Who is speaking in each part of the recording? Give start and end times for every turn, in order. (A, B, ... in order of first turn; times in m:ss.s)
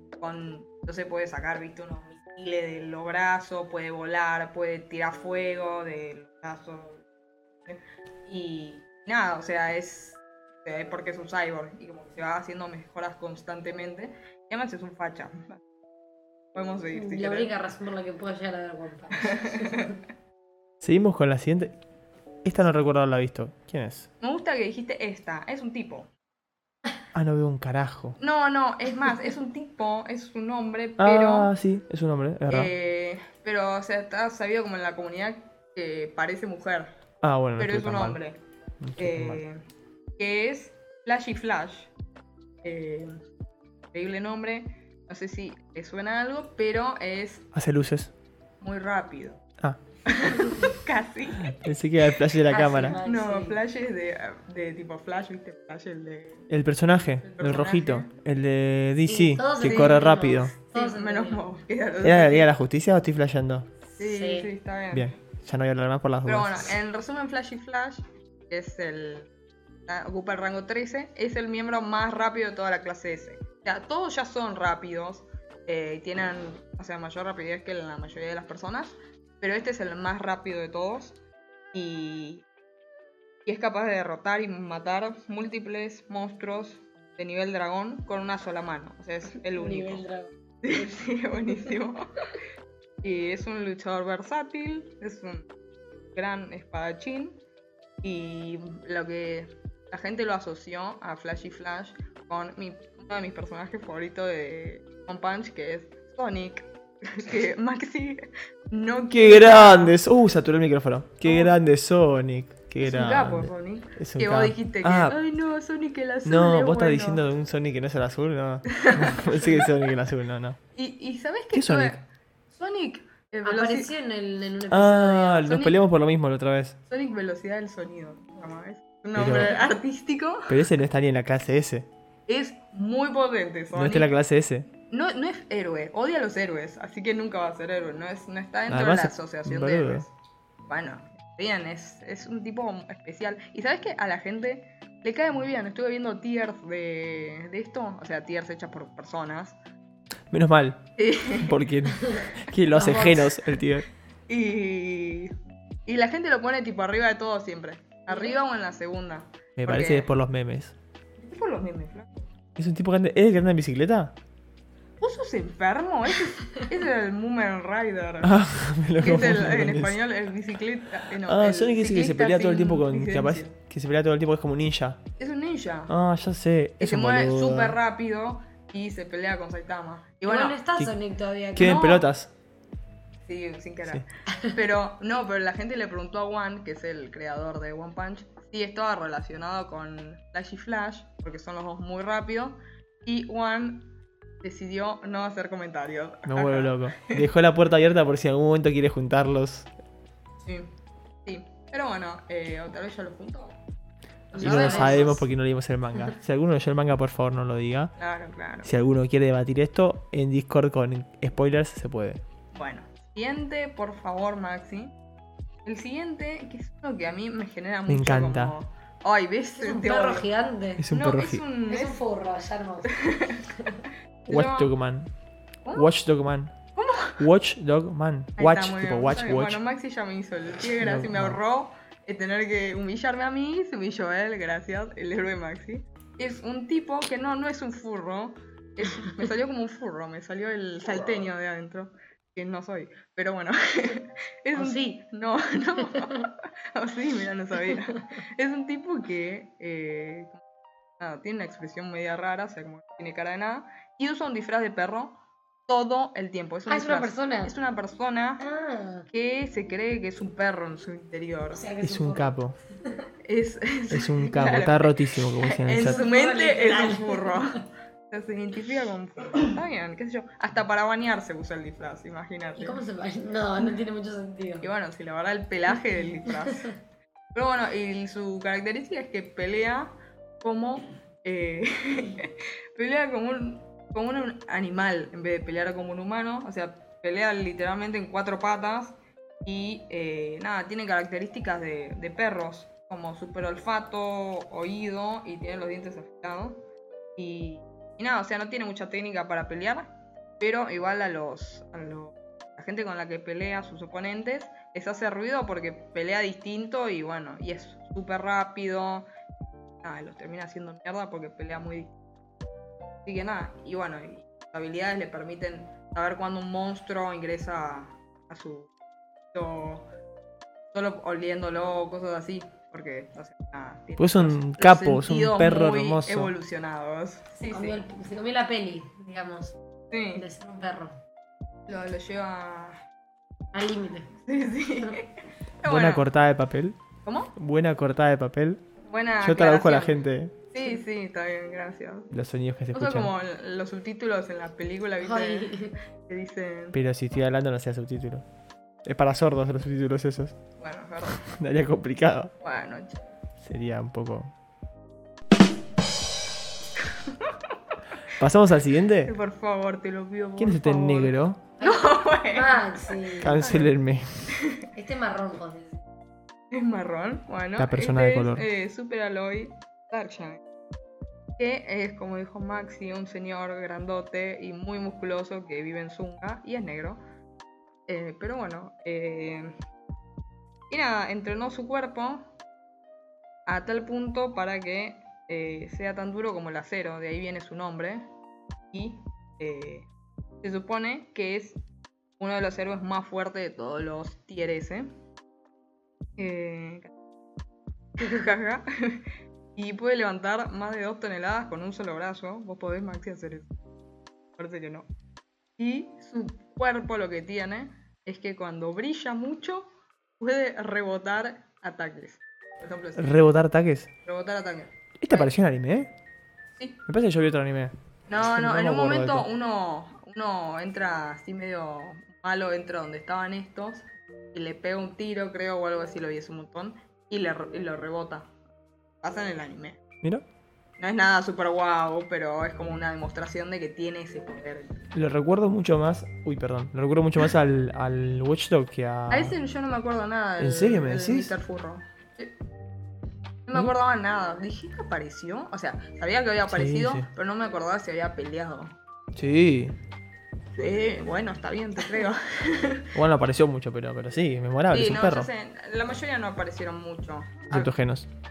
0:00.2-0:07.0 A
0:07.6-0:15.6 A
0:16.5-0:17.5 A
0:16.9-0:19.9 B
0:19.2-0:20.0 A
0:20.8-0:21.8 C
0:22.4-0:24.1 C
0:24.2-0:26.1 A
0:27.1-0:28.2 C
0:28.2-0:31.5 A
0:31.0-0:32.7 C
0:32.5-0:36.9 A
0:37.2-0:38.2 C
0:37.6-0:38.4 A
0:38.8-0:39.4 C
0:39.0-0:39.6 A
0:40.2-0:41.9 A
0:42.6-0:43.2 A
0:43.9-0:47.4 A
0:47.5-0:48.1 C
0:48.6-0:49.4 A
0:50.0-0:51.6 A
0:51.4-0:53.0 C
0:52.5-0:53.6 B
0:52.7-0:56.5 A
0:56.5-1:00.5 C
0:57.3-0:58.1 A
0:59.0-1:01.4 B
1:00.7-1:02.5 A
1:02.0-1:03.7 C
1:04.0-1:04.5 B
1:04.0-1:05.1 A
1:04.9-1:06.7 C
1:06.2-1:09.3 A
1:09.9-1:21.2 A
1:21.7-1:22.4 A
1:23.4-1:30.0 A
1:29.5-1:30.9 B
1:30.6-1:32.0 A
1:33.0-1:35.5 A
1:36.1-1:37.4 A
1:38.0-1:50.0 A
1:49.1-1:55.2 C
1:51.2-1:51.6 A
1:52.8-1:57.2 A
1:56.2-2:00.6 C
1:58.7-1:59.7 A
2:00.7-2:02.0 A
2:01.5-2:02.0 C
2:02.5-2:03.9 A
2:03.4-2:05.5 B
2:04.7-2:06.8 C
2:05.4-2:05.8 A
2:06.9-2:10.6 A
2:09.1-2:09.6 C
2:10.5-2:11.9 C
2:12.3-2:14.1 A
2:13.7-2:14.6 C
2:14.9-2:20.1 A
2:18.7-2:20.0 C
2:20.7-2:29.6 A
2:30.3-2:30.8 C
2:31.0-2:31.6 A
2:31.4-2:33.8 C
2:32.7-2:33.2 B
2:34.3-2:35.3 A
2:35.8-2:40.1 A
2:39.6-2:40.7 C
2:41.2-2:42.3 A
2:42.6-2:44.1 C
2:45.0-2:48.4 A
2:48.2-2:50.0 C
2:49.0-2:53.5 A
2:51.2-2:55.0 C
2:55.2-2:55.9 A
2:55.9-2:57.8 C
2:56.8-3:00.6 A
3:00.2-3:01.9 B
3:01.5-3:02.3 C
3:01.6-3:02.1 A
3:03.3-3:17.3 A
3:16.2-3:19.7 C
3:21.2-3:23.6 A
3:24.3-3:25.1 A
3:24.3-3:25.2 B
3:24.4-3:27.9 C
3:28.0-3:28.7 A
3:28.6-3:32.2 C
3:32.5-3:34.9 A
3:35.6-3:40.3 A
3:37.9-3:38.5 C
3:39.6-3:40.8 B
3:40.8-3:41.4 C
3:40.9-3:42.0 A
3:41.7-3:42.9 B
3:42.9-3:43.5 A
3:44.3-3:44.7 A
3:44.3-3:45.1 C
3:45.7-3:46.5 C
3:46.8-3:47.2 A
3:47.2-3:49.6 C
3:48.4-4:10.4 A
3:50.8-3:51.4 C
4:04.5-4:05.0 B
4:05.8-4:06.2 B
4:07.7-4:08.0 B
4:11.0-4:18.4 A
4:16.7-4:17.5 B
4:18.4-4:19.0 B
4:19.1-4:21.6 A
4:21.5-4:22.3 B
4:21.8-4:22.6 C
4:23.2-4:32.8 A
4:23.9-4:26.0 C
4:25.7-4:27.6 B
4:32.6-4:34.6 B
4:34.6-4:36.7 A
4:37.3-4:56.6 A
4:57.2-5:09.1 A
5:09.8-5:11.9 A
5:13.0-5:18.7 A
5:19.3-5:19.9 A
5:20.7-5:27.8 A
5:24.0-5:26.3 C
5:27.4-5:29.6 B
5:29.9-5:30.2 A
5:30.1-5:31.0 B
5:31.7-5:32.8 A
5:33.5-5:34.1 B
5:34.2-5:36.0 A
5:35.6-5:36.8 C
5:37.0-5:37.3 A
5:37.4-5:38.6 C
5:38.9-5:42.1 A
5:39.2-5:40.3 C
5:42.1-5:43.1 C
5:42.7-5:46.8 A
5:45.0-5:45.7 B
5:46.7-5:48.2 C
5:48.8-5:50.4 C
5:50.6-5:51.3 A
5:51.2-5:52.3 C
5:52.4-5:53.1 A
5:53.4-5:54.3 C
5:56.8-5:57.5 A
5:58.2-5:59.1 C
5:59.0-6:03.8 A
6:00.4-6:01.4 C
6:01.6-6:03.4 B
6:03.2-6:04.3 C
6:04.3-6:04.6 A
6:04.7-6:05.8 B
6:06.5-6:10.4 A
6:07.6-6:08.5 C
6:11.4-6:17.0 A
6:17.9-6:19.5 A
6:20.7-6:22.3 A
6:23.4-6:28.1 A
6:28.7-6:29.9 A
6:30.4-6:31.6 A
6:32.2-6:34.9 A
6:36.2-6:36.9 A
6:38.0-6:39.0 A
6:39.6-6:43.5 A
6:44.4-6:44.9 A
6:45.6-6:53.2 A
6:53.0-6:53.9 C
6:54.0-6:55.3 A
6:55.0-6:55.9 C
6:56.9-6:59.3 C
6:58.1-7:08.3 A
7:09.0-7:09.8 A
7:10.8-7:14.8 A
7:14.9-7:19.4 C
7:19.1-7:22.3 A
7:20.4-7:21.3 C
7:23.5-7:28.8 A
7:26.4-7:27.1 C
7:29.1-7:29.8 C
7:30.6-7:32.9 A
7:32.9-7:35.3 C
7:34.7-7:37.7 A
7:37.5-7:38.1 C